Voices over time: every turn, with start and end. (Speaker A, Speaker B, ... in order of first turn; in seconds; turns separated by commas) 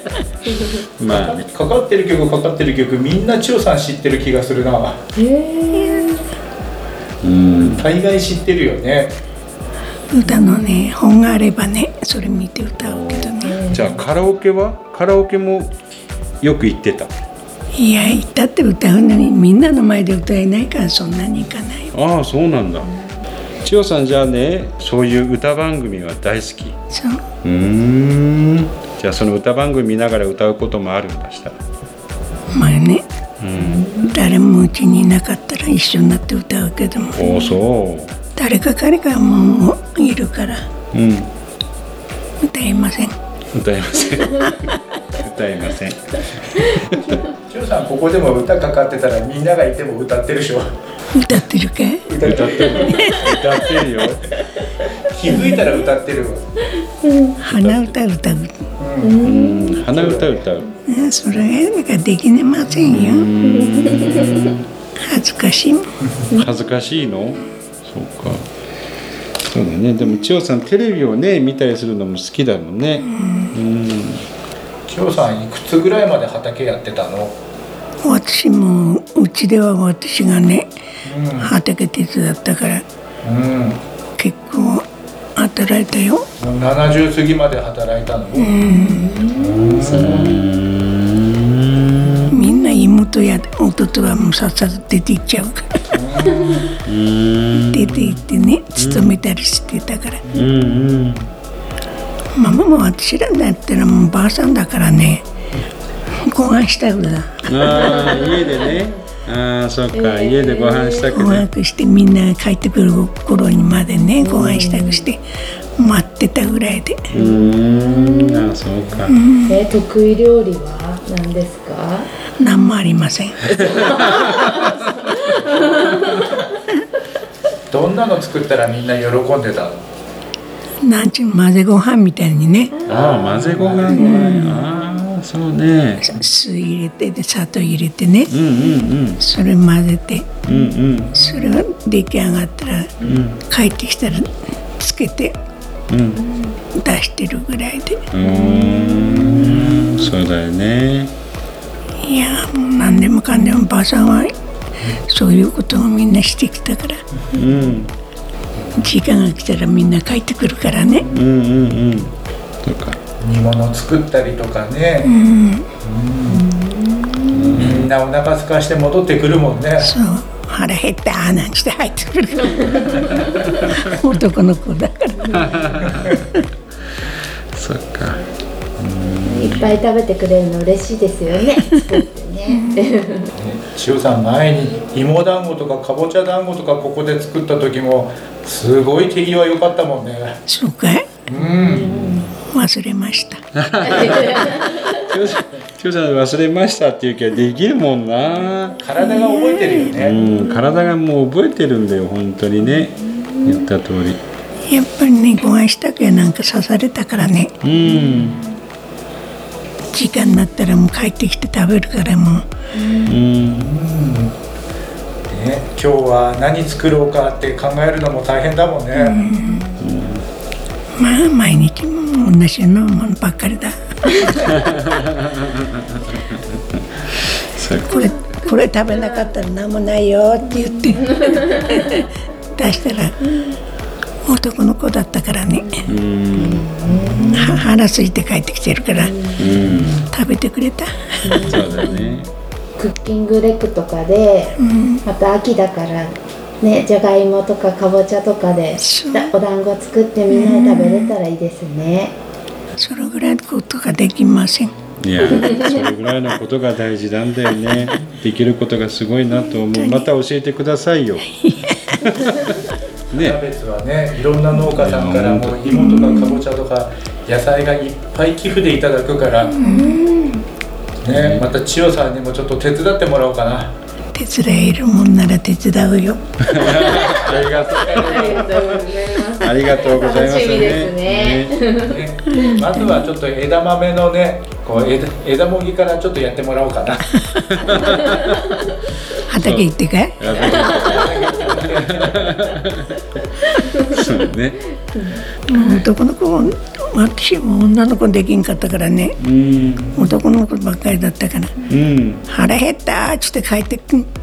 Speaker A: 0.5-0.8, Speaker B: 1.0-1.5, Speaker C: 1.1-5.0, Speaker A: 5.2-6.2, Speaker D: 5.7-6.1, Speaker B: 7.2-7.8, Speaker C: 7.7-9.2, Speaker D: 10.1-13.7, Speaker A: 10.2-10.5, Speaker B: 12.8-15.8, Speaker A: 13.4-13.9, Speaker B: 16.4-17.1, Speaker D: 17.8-21.9, Speaker B: 21.9-22.9, Speaker B: 23.6-26.8, Speaker D: 26.9-27.2, Speaker B: 27.4-31.6, Speaker D: 32.5-33.0, Speaker B: 33.4-33.9, Speaker A: 33.6-34.1, Speaker D: 34.0-37.2, Speaker B: 37.1-38.1, Speaker D: 38.4-40.7, Speaker B: 40.9-41.3, Speaker D: 42.4-43.1, Speaker B: 43.5-47.2, Speaker C: 47.5-50.7, Speaker D: 51.1-52.0, Speaker C: 52.1-53.1, Speaker B: 52.2-54.2, Speaker D: 52.8-53.3, Speaker C: 55.1-56.5, Speaker A: 55.3-55.8, Speaker A: 57.0-57.4, Speaker D: 57.4-58.5, Speaker C: 58.8-59.2, Speaker A: 59.0-59.9, Speaker B: 59.2-60.7, Speaker C: 59.9-60.5, Speaker D: 60.9-63.3, Speaker B: 62.8-64.7, Speaker D: 65.0-65.9, Speaker B: 66.3-68.5, Speaker B: 69.5-74.2, Speaker D: 73.0-73.5, Speaker C: 74.9-77.4, Speaker D: 78.0-80.7, Speaker C: 81.0-81.5, Speaker D: 81.4-82.8, Speaker C: 83.2-83.8, Speaker D: 84.2-86.2, Speaker C: 86.4-88.6, Speaker D: 88.3-89.1, Speaker A: 88.7-90.2, Speaker C: 89.3-90.2, Speaker B: 89.8-92.3, Speaker D: 92.3-95.8, Speaker C: 95.9-96.7, Speaker B: 96.8-98.2, Speaker D: 97.7-100.2, Speaker B: 98.8-99.2, Speaker B: 100.3-101.3, Speaker D: 102.3-105.2, Speaker D: 106.2-108.0, Speaker B: 107.5-111.5, Speaker A: 107.7-108.8, Speaker A: 109.9-111.1, Speaker D: 111.1-115.2, Speaker A: 114.2-115.1, Speaker D: 115.8-117.1, Speaker B: 117.1-119.2, Speaker A: 117.9-118.4, Speaker D: 119.1-119.6, Speaker A: 119.5-122.1, Speaker D: 122.4-123.4, Speaker B: 123.6-124.6, Speaker A: 125.3-126.0, Speaker C: 127.7-129.8, Speaker D: 130.8-132.8, Speaker B: 132.9-136.1, Speaker C: 132.9-134.0, Speaker D: 133.9-134.6, Speaker D: 136.0-138.3, Speaker B: 138.3-139.2, Speaker D: 139.2-140.4, Speaker B: 140.4-141.2, Speaker D: 141.1-145.4, Speaker B: 143.0-143.4, Speaker B: 145.9-146.2, Speaker D: 146.7-148.0, Speaker B: 148.1-151.1, Speaker A: 148.3-148.7, Speaker D: 152.0-154.3, Speaker D: 154.9-157.0, Speaker B: 157.3-157.9, Speaker D: 158.7-161.1, Speaker B: 161.1-163.0, Speaker C: 163.2-165.1, Speaker D: 165.0-165.7, Speaker C: 165.8-166.4, Speaker A: 166.3-167.5, Speaker B: 167.3-167.9, Speaker C: 167.5-169.9, Speaker D: 169.8-175.5, Speaker B: 175.3-176.2, Speaker B: 177.5-178.2, Speaker B: 178.8-179.8, Speaker A: 179.2-183.3, Speaker D: 182.5-182.8, Speaker C: 183.4-190.4, Speaker D: 190.5-191.1, Speaker C: 191.3-192.2, Speaker A: 191.4-192.3, Speaker D: 192.4-193.4, Speaker B: 193.6-198.8, Speaker A: 193.8-194.8, Speaker C: 198.8-200.2, Speaker D: 199.0-199.9, Speaker B: 200.0-204.2, Speaker D: 204.7-207.6, Speaker B: 207.6-208.4, Speaker D: 209.9-212.5, Speaker C: 212.8-214.3, Speaker B: 213.1-213.7, Speaker C: 215.3-219.2, Speaker D: 218.9-219.7, Speaker B: 219.8-220.2, Speaker D: 221.0-224.3, Speaker B: 224.3-226.4, Speaker B: 227.3-228.1, Speaker D: 227.8-233.3, Speaker D: 234.2-235.9, Speaker A: 235.6-237.6, Speaker B: 235.9-236.7, Speaker D: 237.3-239.1, Speaker A: 238.9-239.5, Speaker B: 239.3-240.1, Speaker D: 240.0-241.6, Speaker A: 241.2-242.1, Speaker B: 241.4-242.3, Speaker A: 242.8-252.2, Speaker D: 244.6-245.0, Speaker D: 248.8-249.3, Speaker D: 250.3-251.1, Speaker D: 252.8-254.7, Speaker B: 255.0-261.3, Speaker D: 259.7-260.1, Speaker D: 261.2-262.0, Speaker B: 261.9-262.5, Speaker B: 263.1-263.4, Speaker C: 263.1-269.6, Speaker B: 264.8-265.6, Speaker D: 265.7-266.4, Speaker D: 269.4-270.1, Speaker A: 269.6-270.4, Speaker C: 271.0-273.7, Speaker B: 271.1-271.4, Speaker D: 274.1-276.2, Speaker B: 276.4-281.6, Speaker A: 276.6-281.9, Speaker C: 277.2-278.4, Speaker C: 281.1-287.1, Speaker D: 282.3-283.0, Speaker D: 287.2-287.5, Speaker B: 287.5-288.5, Speaker A: 287.9-288.6, Speaker D: 289.2-290.3, Speaker B: 289.4-293.1, Speaker C: 290.2-292.3, Speaker A: 290.5-291.4, Speaker B: 293.7-294.7, Speaker D: 295.5-299.2, Speaker B: 299.2-300.1, Speaker D: 299.9-301.6, Speaker B: 301.7-302.3, Speaker D: 302.3-304.1